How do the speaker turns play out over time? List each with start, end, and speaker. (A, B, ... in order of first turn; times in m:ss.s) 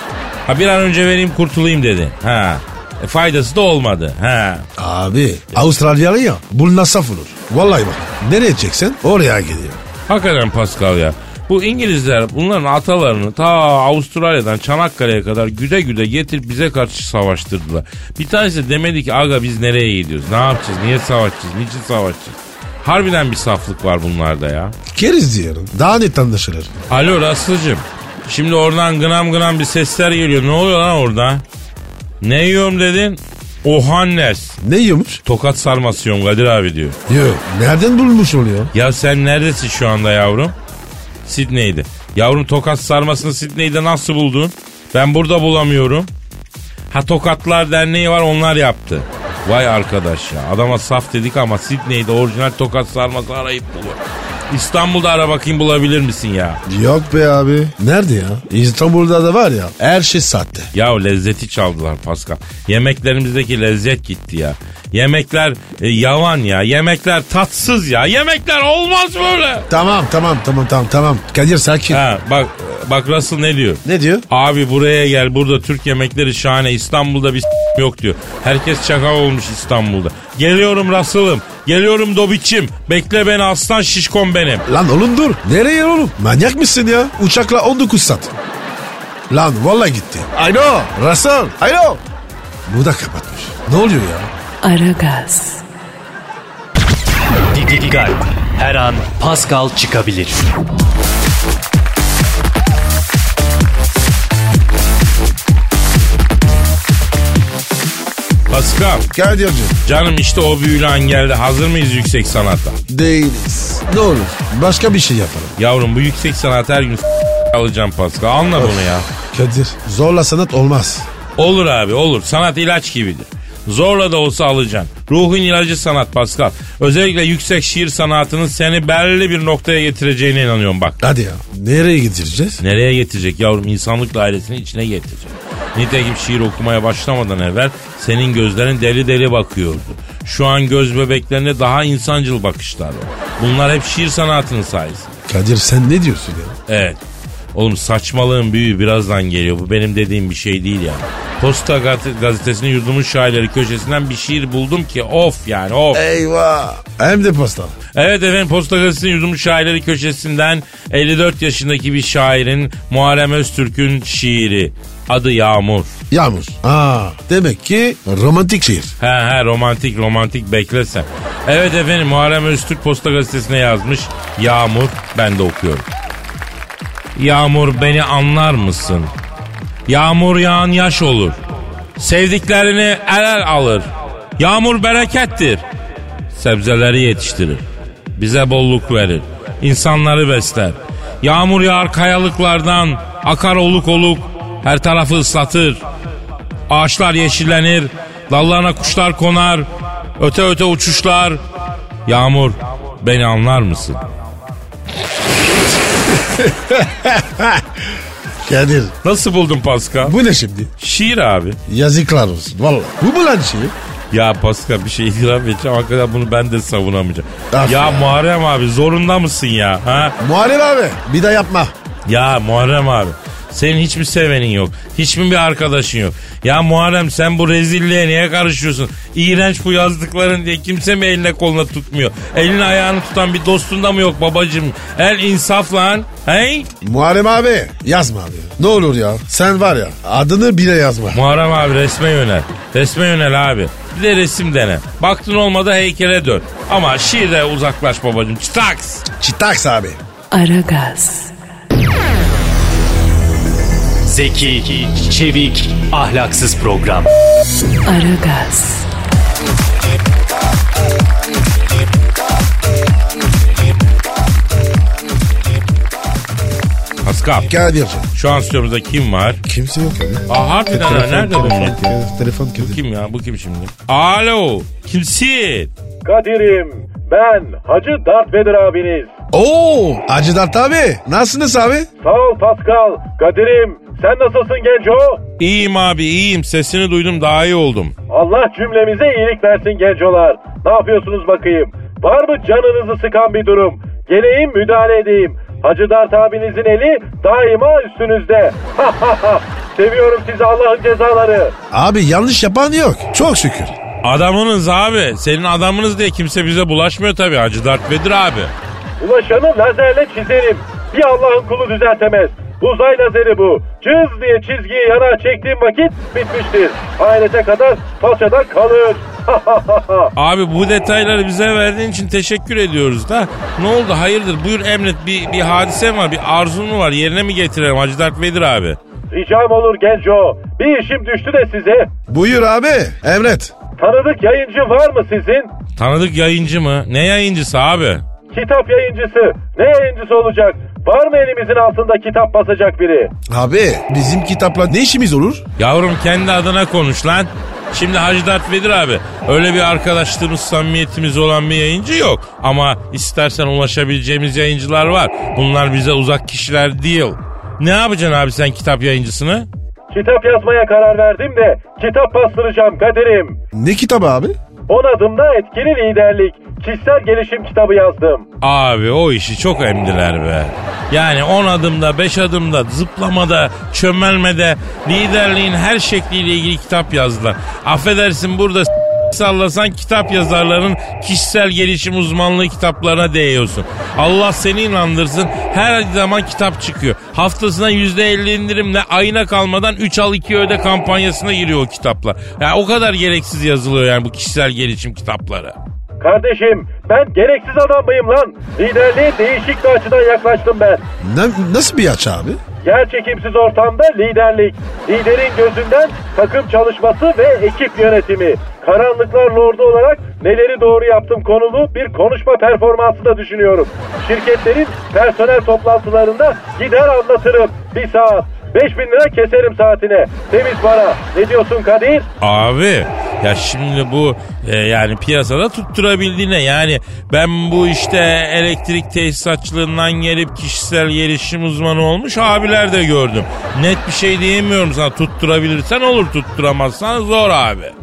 0:00.5-0:04.6 A
0:04.8-0:09.8 B
0:10.1-0:24.7 A
0:24.9-0:26.7 B
0:26.9-0:31.4 A
0:32.2-0:34.6 A
0:34.6-0:35.2 B
0:35.2-0:37.0 A
0:37.1-0:38.7 B
0:38.7-0:40.5 A
0:41.2-0:46.1 A
0:46.9-0:54.0 A
0:54.5-0:56.6 A
0:56.6-1:00.7 B
1:00.7-1:09.7 A
1:09.7-1:12.0 B
1:11.9-1:24.6 A
1:13.8-1:14.2 B
1:24.7-1:28.3 B
1:29.3-1:32.0 B
1:32.6-1:34.3 B
1:34.6-1:35.6 C
1:37.5-1:40.4 D
1:48.5-1:49.0 A
1:49.1-1:49.8 B
1:49.8-1:52.8 A
1:52.9-1:55.5 B
1:55.6-1:59.0 A
1:58.5-2:01.1 B
2:01.4-2:11.0 A
2:11.0-2:12.6 B
2:12.6-2:25.1 A
2:25.3-2:26.6 B
2:26.7-2:27.0 A
2:27.5-2:36.0 A
2:35.9-2:37.7 B
2:37.9-2:45.9 A
2:46.1-2:48.9 B
2:49.0-2:55.9 A
2:57.2-2:59.1 A
2:59.9-3:01.4 A
3:02.0-3:03.9 A
3:04.4-3:05.6 A
3:06.3-3:07.6 A
3:08.2-3:15.8 A
3:16.7-3:19.7 A
3:20.2-3:21.4 A
3:22.0-3:24.0 A
3:26.1-3:27.6 B
3:28.4-3:28.9 B
3:29.0-3:30.2 A
3:30.0-3:30.7 B
3:30.8-3:31.6 A
3:31.7-3:33.7 B
3:34.1-3:40.2 A
3:37.5-3:38.1 B
3:40.2-3:41.7 B
3:42.0-3:56.7 A
3:56.8-4:01.2 B
4:01.1-4:09.0 A
4:09.1-4:10.0 B
4:10.3-4:11.3 C
4:14.0-4:17.1 D
4:17.8-4:18.9 C
4:27.0-4:27.5 A
4:27.4-4:28.1 B
4:28.1-4:29.4 A
4:29.4-4:32.8 B
4:30.3-4:31.8 A
4:32.6-4:35.7 A
4:36.0-4:39.1 E
4:39.3-4:41.9 B
4:42.0-4:45.2 E
4:45.4-4:47.9 A
4:48.1-5:01.5 E
5:01.7-5:03.8 B
5:04.0-5:08.5 A
5:09.0-5:20.1 E
5:20.2-5:28.8 A
5:29.1-5:31.9 E
5:32.1-5:33.5 B
5:33.8-5:35.5 E
5:35.8-5:38.0 A
5:38.3-5:43.1 E
5:43.3-5:45.4 B
5:45.6-5:59.5 A
5:59.9-6:03.4 E
6:03.5-6:04.4 B
6:04.7-6:08.2 E
6:08.4-6:35.5 A
6:36.0-6:40.8 E
6:41.0-6:42.4 B
6:42.6-7:02.1 E
7:02.2-7:17.7 A